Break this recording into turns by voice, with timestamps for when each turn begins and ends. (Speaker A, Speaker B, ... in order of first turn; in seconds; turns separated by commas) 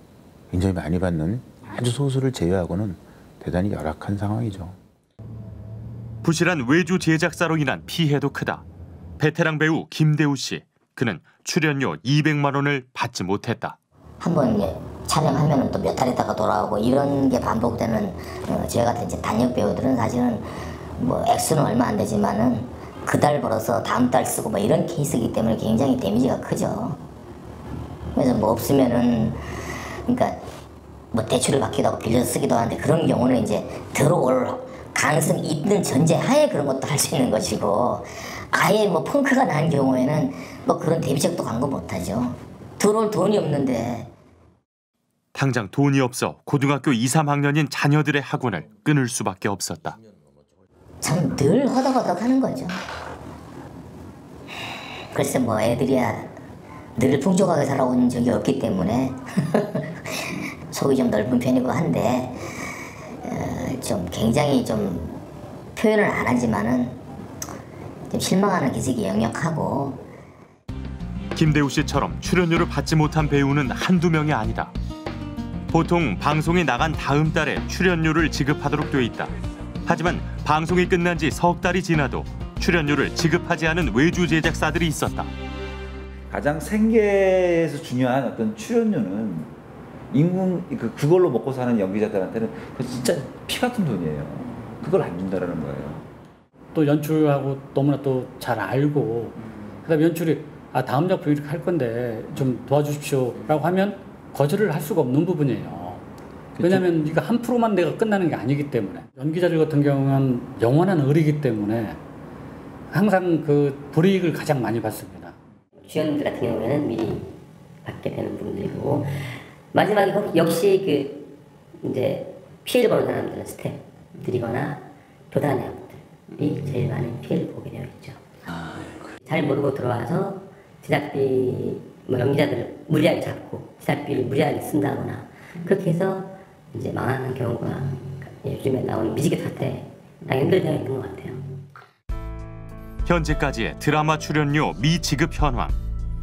Speaker A: 0.5-4.8, Speaker B: 6.2-8.7, Speaker B: 9.2-13.8, Speaker C: 14.2-27.0, Speaker C: 28.1-29.4, Speaker C: 30.1-30.4, Speaker C: 31.1-44.1, Speaker B: 45.4-50.0, Speaker C: 51.0-52.8, Speaker C: 55.1-56.3, Speaker C: 57.0-59.9, Speaker C: 60.7-62.4, Speaker C: 63.2-65.2, Speaker C: 65.8-67.0, Speaker C: 68.1-70.0, Speaker B: 71.3-74.7, Speaker B: 75.7-79.3, Speaker B: 79.9-85.3, Speaker D: 86.3-89.5, Speaker D: 90.1-96.0, Speaker E: 96.7-106.0, Speaker E: 106.6-112.0, Speaker E: 112.9-115.4, Speaker F: 115.8-117.3, Speaker F: 117.8-128.2, Speaker F: 129.2-141.5, Speaker B: 143.1-145.8